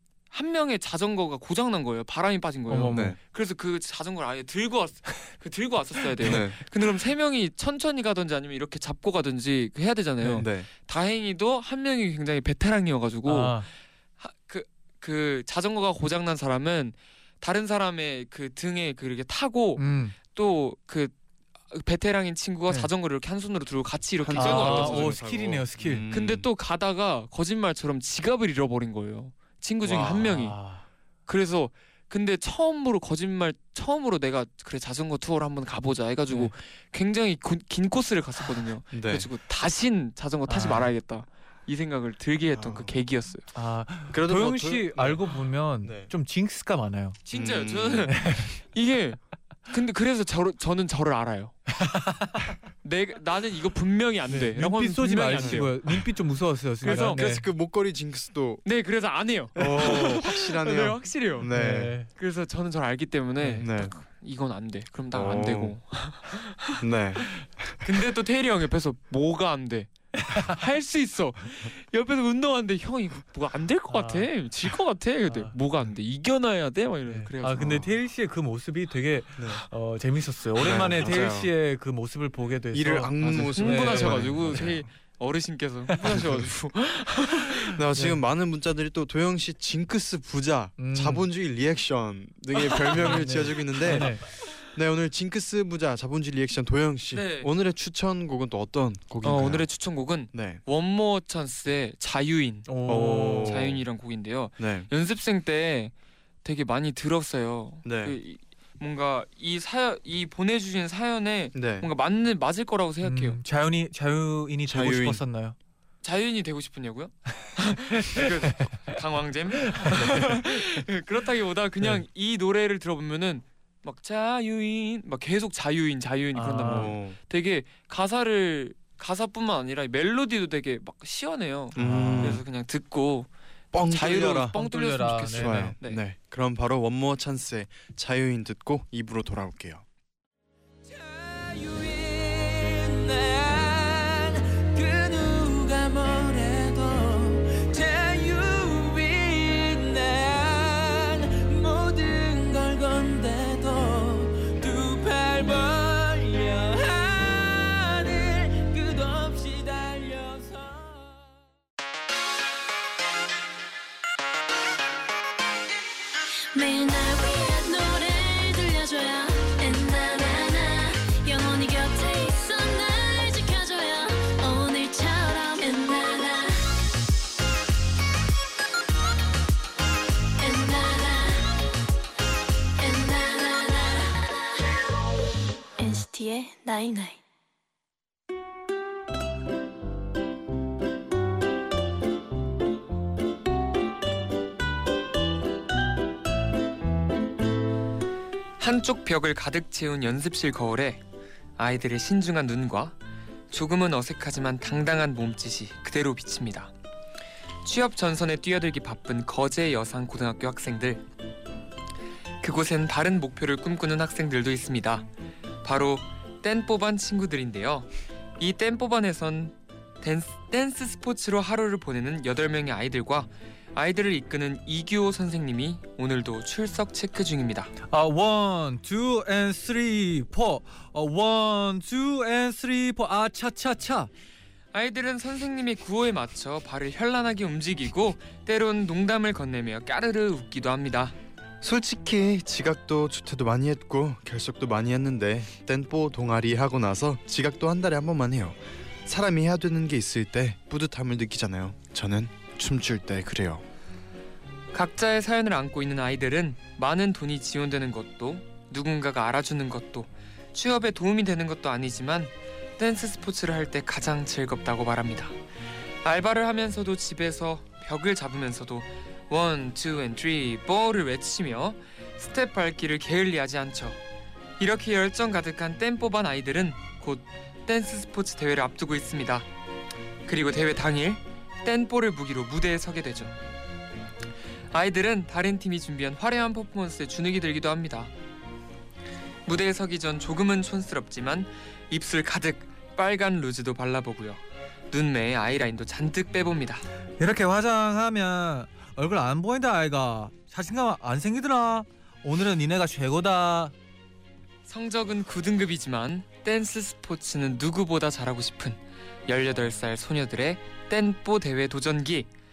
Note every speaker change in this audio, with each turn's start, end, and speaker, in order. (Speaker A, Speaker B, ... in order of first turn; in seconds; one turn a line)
Speaker A: 0.3-13.7
Speaker B: 2.7-3.1
Speaker C: 2.9-3.2
Speaker C: 6.2-6.6
Speaker C: 10.4-10.7
Speaker B: 13.3-13.7
Speaker A: 14.2-21.1
Speaker B: 19.8-20.2
Speaker A: 21.7-25.2
Speaker C: 24.2-26.5
Speaker B: 24.3-26.1
Speaker A: 26.1-30.6
Speaker C: 29.8-30.3
Speaker B: 30.0-30.8
Speaker A: 31.3-43.5
Speaker C: 38.9-39.3
Speaker B: 40.5-40.9
Speaker C: 42.5-43.0
Speaker B: 43.5-47.2
Speaker C: 44.1-46.1
Speaker A: 47.2-51.6
Speaker C: 47.3-48.2
Speaker B: 48.1-48.6
Speaker B: 51.7-52.6
Speaker A: 52.8-55.8
Speaker B: 54.3-57.5
Speaker C: 55.3-55.7
Speaker A: 56.8-57.2
Speaker C: 56.9-58.6
Speaker A: 58.6-61.5
Speaker C: 59.6-62.0
Speaker B: 59.6-60.1
Speaker B: 61.5-62.1
Speaker A: 62.1-77.8
Speaker B: 63.4-63.7
Speaker C: 63.6-63.9
Speaker C: 65.1-65.8
Speaker C: 66.8-67.8
Speaker B: 70.2-70.6
Speaker B: 73.9-74.3
Speaker B: 77.1-84.7
Speaker C: 77.6-77.9
Speaker C: 79.4-79.6
Speaker C: 80.6-81.5
Speaker C: 82.7-84.9
Speaker A: 83.2-87.8
Speaker C: 86.0-86.5
Speaker C: 87.6-99.7
Speaker B: 90.8-91.3
Speaker A: 92.7-93.2
Speaker B: 93.0-94.3
Speaker A: 97.1-97.5
Speaker A: 99.2-105.9
Speaker C: 100.3-100.6
Speaker B: 102.7-103.7
Speaker C: 102.9-103.8
Speaker C: 104.6-104.9
Speaker A: 106.4-113.4
Speaker C: 107.8-108.2
Speaker C: 111.5-111.9
Speaker B: 113.0-115.6
Speaker C: 114.7-115.2
Speaker A: 116.0-136.0
Speaker B: 118.0-118.7
Speaker B: 119.7-120.3
Speaker B: 126.3-127.0
Speaker C: 126.7-127.2
Speaker C: 131.8-132.4
Speaker B: 131.8-132.4
Speaker C: 133.7-134.6
Speaker B: 134.5-135.8
Speaker C: 135.3-139.8
Speaker D: 140.9-161.1
Speaker E: 166.5-176.8
Speaker E: 180.4-181.6
Speaker E: 182.8-184.8
Speaker E: 185.8-187.2
Speaker A: 198.6-201.0
Speaker A: 201.6-203.0
Speaker A: 203.5-206.7
Speaker A: 207.6-211.0
Speaker A: 212.4-215.1
Speaker A: 215.6-227.7
Speaker B: 227.9-234.1
Speaker A: 234.7-241.2
Speaker C: 241.6-253.6
Speaker A: 254.7-265.4
Speaker A: 266.0-274.0
Speaker A: 274.6-279.5
Speaker A: 280.3-283.4
Speaker A: 284.7-288.1
Speaker A: 289.5-296.9
Speaker B: 297.2-303.7
Speaker A: 304.7-312.3